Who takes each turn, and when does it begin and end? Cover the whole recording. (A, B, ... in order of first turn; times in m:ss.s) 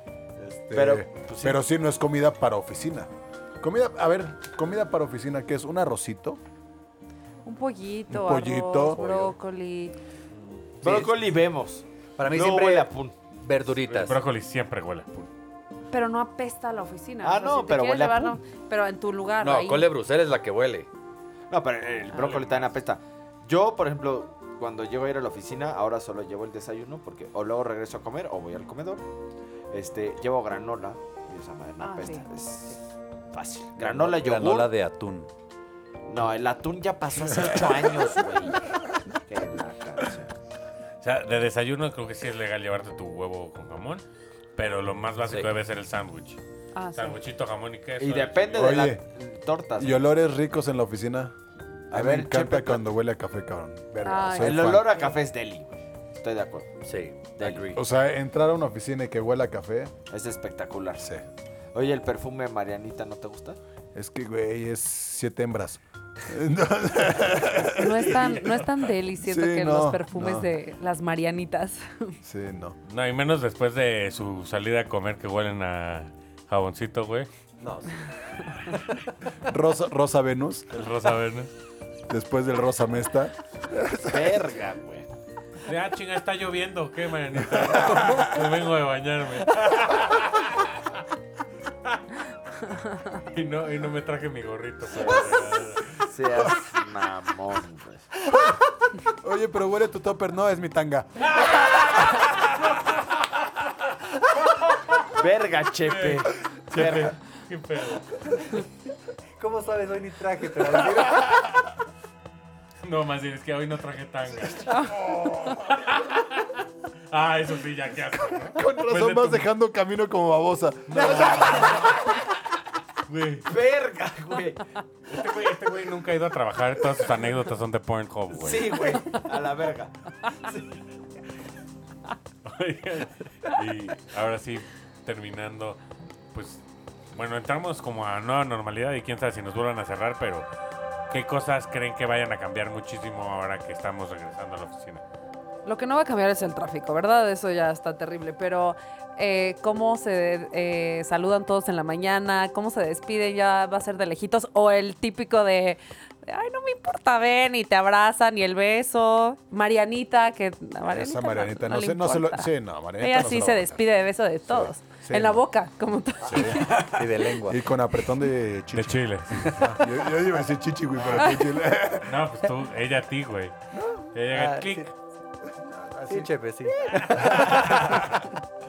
0:00.4-0:03.1 A
0:00.7-0:01.6 B
0:03.6-0:06.4 A
0:07.4-0:09.9 C
0:08.1-0:09.0 A
0:08.9-0:09.3 D
0:10.8-0:11.1 D
0:10.8-0:13.2 B
0:12.2-0:14.2 D
0:13.8-0:15.3 E
0:15.9-0:19.9 C
0:17.2-0:18.4 B
0:19.4-0:20.9 D
0:21.5-0:29.1 B
0:22.1-0:22.7 E
0:29.7-0:34.7 B
0:31.8-0:32.8 C
0:33.8-0:35.3 D
0:36.1-0:38.7 B
0:39.3-0:40.3 B
0:41.0-0:44.0 E
0:44.6-0:46.4 E
0:45.2-0:45.5 D
0:46.7-0:47.2 C
0:46.9-0:48.9 E
0:48.0-0:50.1 B
0:48.5-0:49.0 A
0:49.8-0:51.3 A
0:51.9-0:52.8 B
0:51.9-0:54.9 A
0:54.0-0:55.1 C
0:54.4-0:56.7 B
0:56.8-0:57.8 D
0:57.4-0:57.7 B
0:57.7-0:59.9 A
1:00.1-1:01.1 B
1:01.0-1:01.2 A
1:01.7-1:03.6 B
1:03.9-1:08.4 A
1:07.7-1:12.2 C
1:09.2-1:10.5 A
1:12.2-1:12.8 A
1:12.9-1:17.3 E
1:17.6-1:19.1 D
1:19.4-1:20.7 A
1:20.7-1:21.5 E
1:22.1-1:24.4 A
1:24.0-1:25.1 B
1:25.6-1:30.8 E
1:27.6-1:28.2 A
1:32.7-1:33.0 C
1:33.1-1:36.1 E
1:34.9-1:38.1 B
1:38.3-1:41.9 A
1:45.1-1:47.1 B
1:45.8-1:48.6 E
1:49.4-1:51.4 D
1:52.8-1:59.4 E
1:54.7-1:55.0 C
1:54.8-1:55.9 A
1:58.5-2:02.0 A
2:00.9-2:02.2 B
2:03.1-2:03.5 E
2:03.4-2:04.7 B
2:05.1-2:09.1 E
2:08.3-2:10.6 B
2:12.4-2:15.8 E
2:16.3-2:20.5 E
2:21.1-2:25.0 E
2:25.6-2:47.3 C
2:40.9-2:43.8 A
2:44.4-2:45.4 A
2:46.2-2:46.8 A
2:46.6-2:47.6 D
2:47.4-2:52.3 A
2:48.7-2:49.8 E
2:51.0-2:51.4 E
2:52.0-2:53.5 E
2:53.7-2:54.0 A
2:54.1-2:54.9 E
2:54.3-2:54.8 D
2:55.5-2:56.3 A
2:56.1-2:58.2 D
2:56.8-2:58.3 E